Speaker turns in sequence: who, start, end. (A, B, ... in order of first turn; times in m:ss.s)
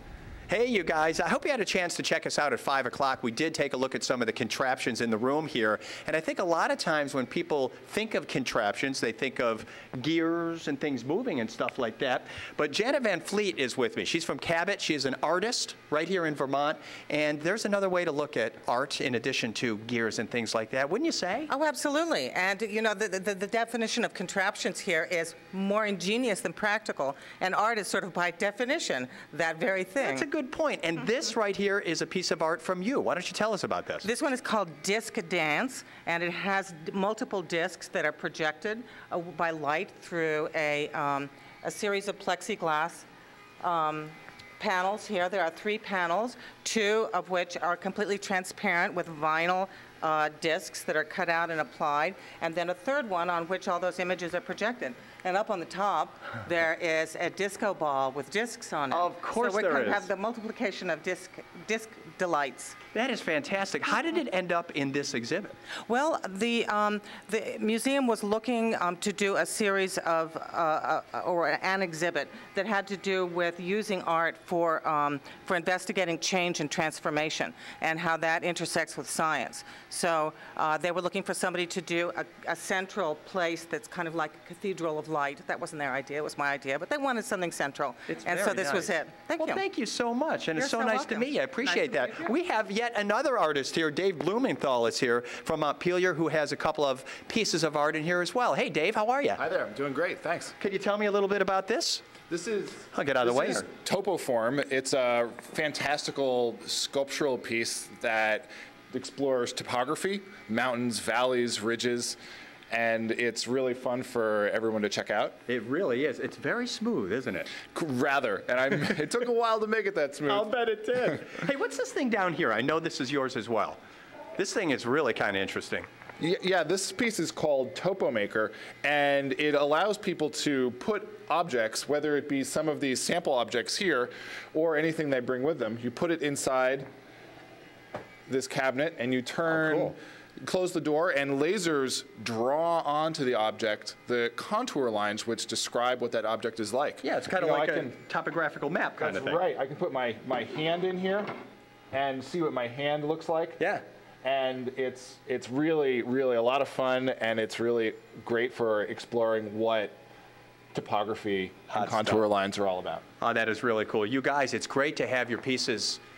0:00.5-0:21.5 A
0:21.5-0:30.3 B
0:30.0-0:34.1 A
0:34.0-0:43.0 B
0:43.6-1:02.8 B
0:58.9-1:00.1 A
1:02.9-1:05.5 A
1:05.9-1:29.6 B
1:28.1-1:39.4 A
1:30.6-1:32.3 B
1:39.4-1:40.5 C
1:40.6-1:42.0 A
1:42.3-1:52.2 C
1:42.9-1:43.6 A
1:52.7-1:55.4 C
1:55.5-1:57.6 A
1:57.6-2:00.5 C
2:00.3-2:03.8 A
2:04.4-2:05.9 A
2:06.2-2:16.9 C
2:18.3-2:28.0 C
2:19.5-2:20.0 A
2:27.0-2:29.4 A
2:29.0-2:31.3 C
2:31.9-2:33.6 C
2:34.2-2:39.9 C
2:40.7-2:43.0 C
2:41.7-2:42.2 A
2:43.2-2:46.0 A